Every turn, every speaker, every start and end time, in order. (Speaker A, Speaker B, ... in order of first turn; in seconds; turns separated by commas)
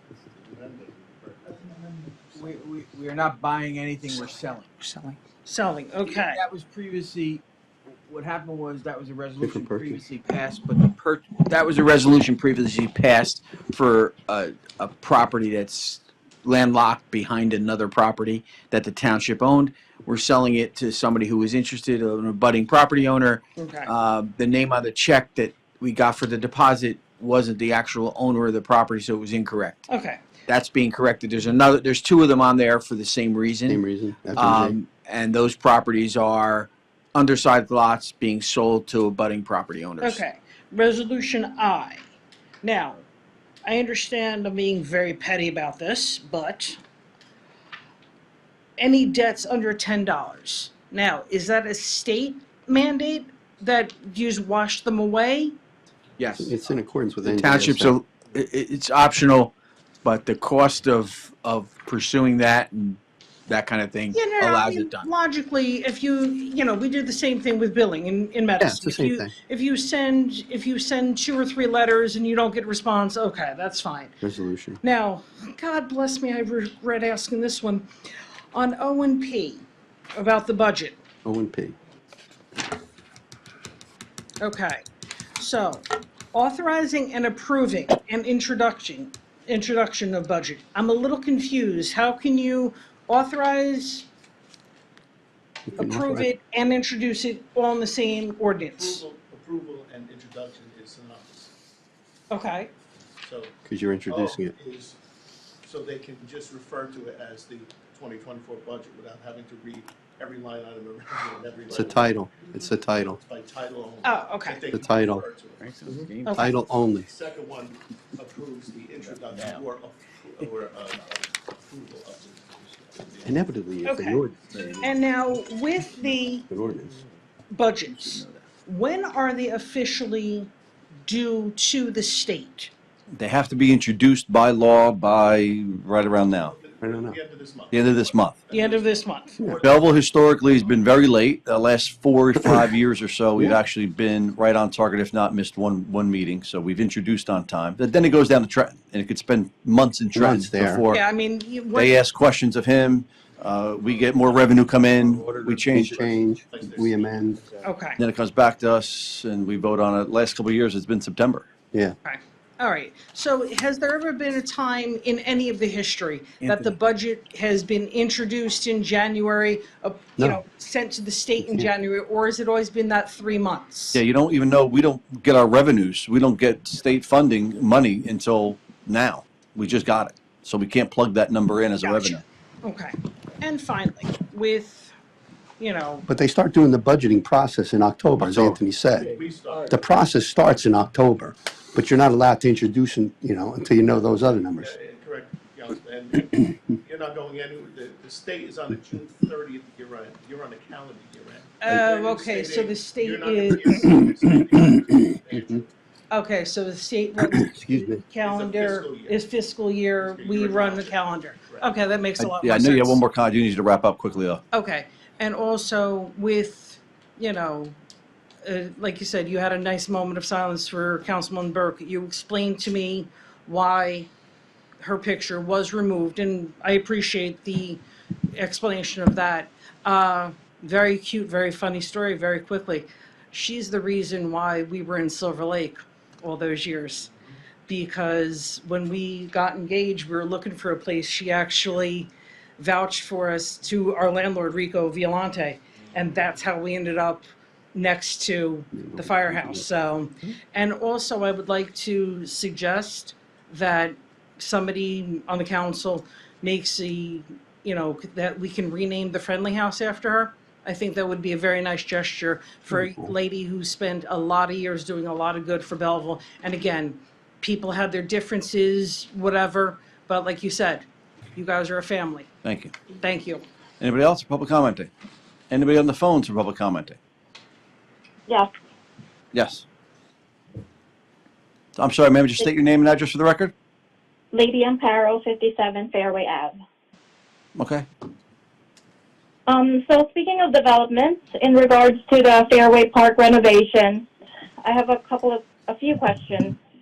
Speaker A: 0.1-2.4, Speaker B: 2.4-4.7, Speaker C: 4.8-6.4, Speaker B: 6.1-7.4, Speaker B: 8.1-29.9, Speaker D: 9.4-10.0, Speaker C: 23.6-23.9, Speaker C: 29.9-30.2, Speaker B: 30.5-33.8, Speaker D: 33.7-34.8, Speaker B: 34.4-40.2, Speaker C: 40.0-42.0, Speaker C: 42.6-43.0, Speaker C: 43.6-46.8, Speaker C: 48.8-55.5, Speaker B: 56.2-56.5, Speaker D: 56.4-58.0, Speaker B: 57.2-59.5, Speaker B: 60.0-65.1, Speaker C: 64.1-74.2, Speaker D: 68.6-69.3, Speaker D: 74.2-74.8, Speaker C: 74.8-77.9, Speaker C: 78.5-81.0, Speaker D: 81.2-81.8, Speaker C: 84.4-84.8, Speaker C: 85.4-94.1, Speaker D: 95.7-96.3, Speaker C: 95.8-99.0, Speaker A: 98.8-101.5, Speaker C: 102.3-102.7, Speaker A: 103.2-103.5, Speaker D: 103.7-104.5, Speaker A: 104.1-105.0, Speaker A: 105.6-112.4, Speaker D: 111.7-113.2, Speaker A: 112.9-115.7, Speaker C: 114.0-114.6, Speaker D: 114.7-115.2, Speaker B: 115.6-116.5, Speaker C: 116.3-116.5, Speaker D: 116.3-117.1, Speaker A: 117.0-123.5, Speaker D: 123.2-124.4, Speaker C: 123.8-124.2, Speaker B: 124.5-124.9, Speaker C: 124.8-126.5, Speaker D: 126.5-127.0, Speaker C: 127.5-130.5, Speaker B: 128.0-128.4, Speaker C: 131.1-132.7, Speaker E: 133.1-136.6, Speaker A: 136.3-141.2, Speaker D: 136.8-137.2, Speaker E: 137.7-138.4, Speaker C: 138.5-139.4, Speaker E: 139.6-151.0, Speaker D: 150.1-150.8, Speaker C: 150.9-152.0, Speaker E: 151.7-156.1, Speaker A: 153.8-157.7, Speaker D: 155.7-157.4, Speaker C: 157.6-158.0, Speaker E: 158.0-161.5, Speaker C: 162.1-174.0, Speaker B: 166.4-166.7, Speaker D: 171.4-171.7, Speaker E: 173.9-182.2, Speaker C: 181.8-184.9, Speaker C: 185.6-186.1, Speaker D: 186.1-194.7, Speaker E: 188.2-188.6, Speaker A: 189.0-189.8, Speaker A: 194.6-205.7, Speaker C: 201.6-203.9, Speaker C: 206.1-213.0, Speaker D: 207.5-208.0, Speaker A: 208.2-209.2, Speaker A: 210.0-211.7, Speaker E: 212.2-214.4, Speaker C: 214.5-217.8, Speaker C: 218.4-224.1, Speaker C: 224.8-237.1, Speaker C: 237.7-270.9, Speaker D: 248.8-249.7, Speaker C: 271.4-272.3, Speaker E: 272.4-272.7, Speaker C: 272.9-273.4, Speaker E: 273.8-274.9, Speaker E: 275.5-277.0, Speaker E: 279.3-279.6, Speaker E: 281.8-283.5, Speaker F: 284.3-286.6, Speaker E: 287.6-287.9, Speaker F: 289.5-294.1, Speaker F: 294.6-296.6